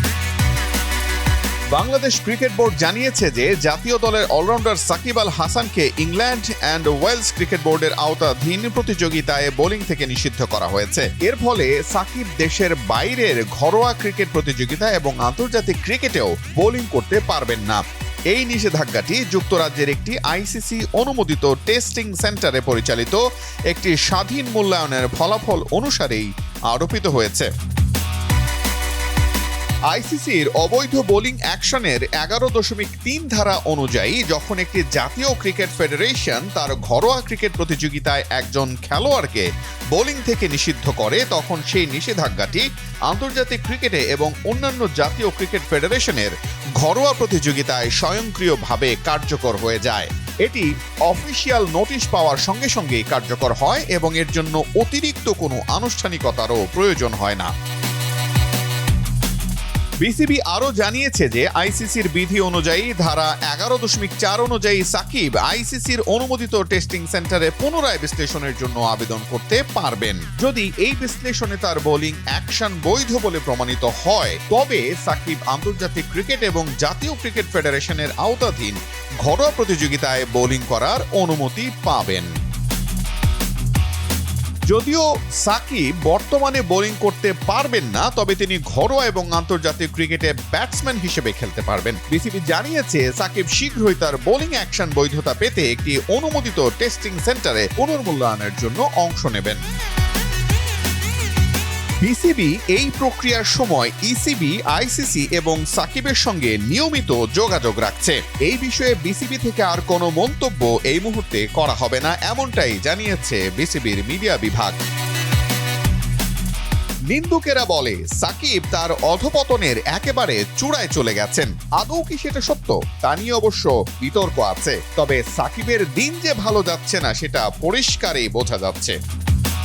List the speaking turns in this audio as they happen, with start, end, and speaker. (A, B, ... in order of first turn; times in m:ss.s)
0:01.7-0:27.5 A
0:29.9-0:57.5 A
1:00.0-1:22.3 A
1:24.7-1:39.6 A
1:42.0-1:54.8 A
1:57.1-2:09.0 A